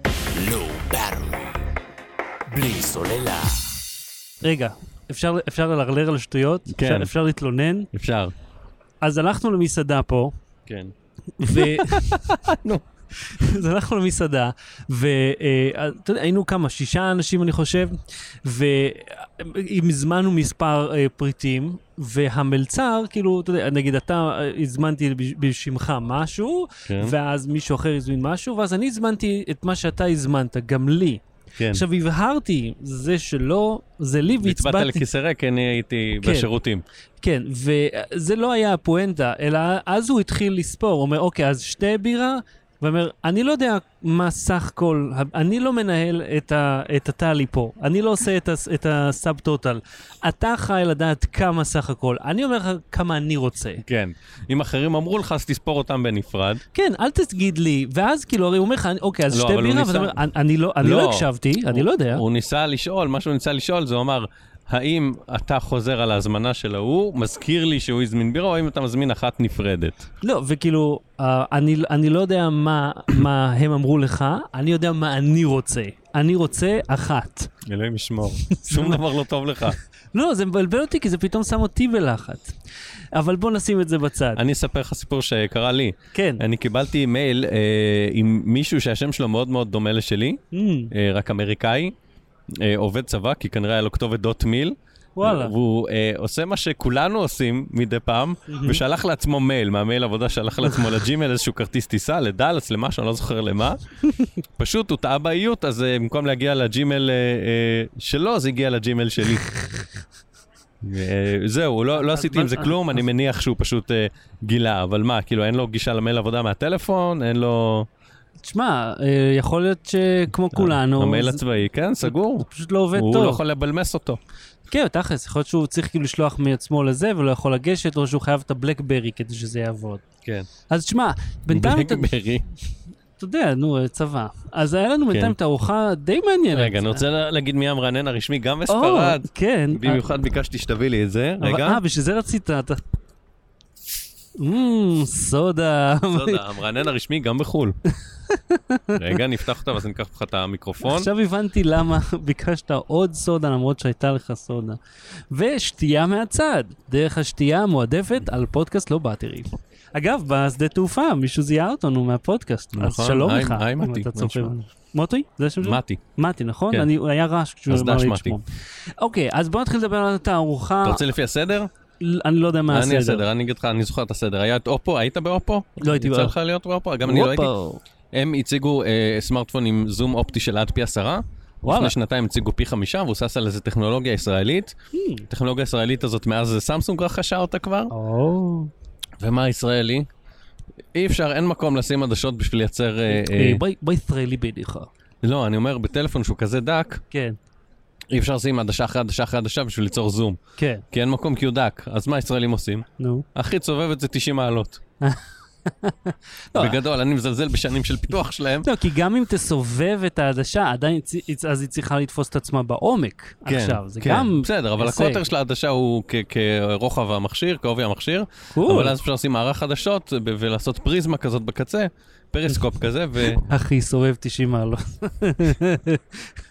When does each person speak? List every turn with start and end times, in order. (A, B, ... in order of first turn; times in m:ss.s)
0:00.3-0:01.6 A
0:02.5-0:03.7 A
0:04.4-0:07.9 B
0:06.7-0:07.1 C
0:07.9-0:08.3 C
0:09.0-0:10.3 B
0:10.7-0:13.6 C
0:11.4-0:12.4 B
0:13.3-0:35.0 B
0:26.9-0:27.2 C
0:31.6-0:31.8 C
0:34.4-0:36.8 C
0:36.2-0:36.5 B
0:37.2-0:53.8 B
0:53.8-0:56.6 C
0:56.7-1:02.2 B
0:59.3-1:00.2 C
1:00.8-1:10.0 C
1:10.2-1:17.5 B
1:17.6-1:19.8 C
1:18.4-1:19.0 B
1:20.1-1:22.5 B
1:23.1-1:24.4 B
1:24.4-1:31.9 C
1:26.1-1:26.4 B
1:30.5-1:30.9 B
1:32.5-1:43.8 C
1:35.2-1:35.5 B
1:38.5-1:38.8 B
1:44.6-1:49.5 C
1:50.8-1:57.9 C
1:52.0-1:52.9 B
1:58.4-2:01.4 B
2:00.5-2:04.2 C
2:02.0-2:03.4 B
2:04.7-2:10.0 B
2:10.7-2:12.1 B
2:11.5-2:12.5 C
2:13.2-2:17.0 B
2:16.5-2:21.8 C
2:18.7-2:20.1 B
2:21.4-2:22.8 B
2:24.4-2:26.4 B
2:26.1-2:27.8 C
2:28.3-2:29.0 B
2:29.0-2:31.1 C
2:30.8-2:34.8 B
2:35.3-2:48.5 B
2:42.7-2:44.6 C
2:45.6-2:46.0 C
2:47.7-2:48.4 C
2:49.0-2:51.1 B
2:50.8-2:51.7 C
2:52.0-2:53.2 B
2:52.7-2:57.5 C
2:55.8-2:56.4 B
2:57.0-2:57.8 B
2:58.1-3:04.7 C
3:01.6-3:01.9 B
3:04.9-3:05.3 B
3:05.3-3:07.9 C
3:07.9-3:08.7 B
3:09.2-3:10.1 C
3:10.9-3:13.6 C
3:13.1-3:14.9 B
3:15.2-3:17.0 C
3:17.1-3:17.4 B
3:18.1-3:20.4 C
3:20.6-3:20.8 B
3:20.9-3:24.8 C
3:23.0-3:23.3 B
3:25.0-3:26.8 B
3:26.6-3:28.7 C
3:28.6-3:35.3 B
3:33.5-3:43.4 C
3:38.6-3:39.0 B
3:43.2-3:46.3 B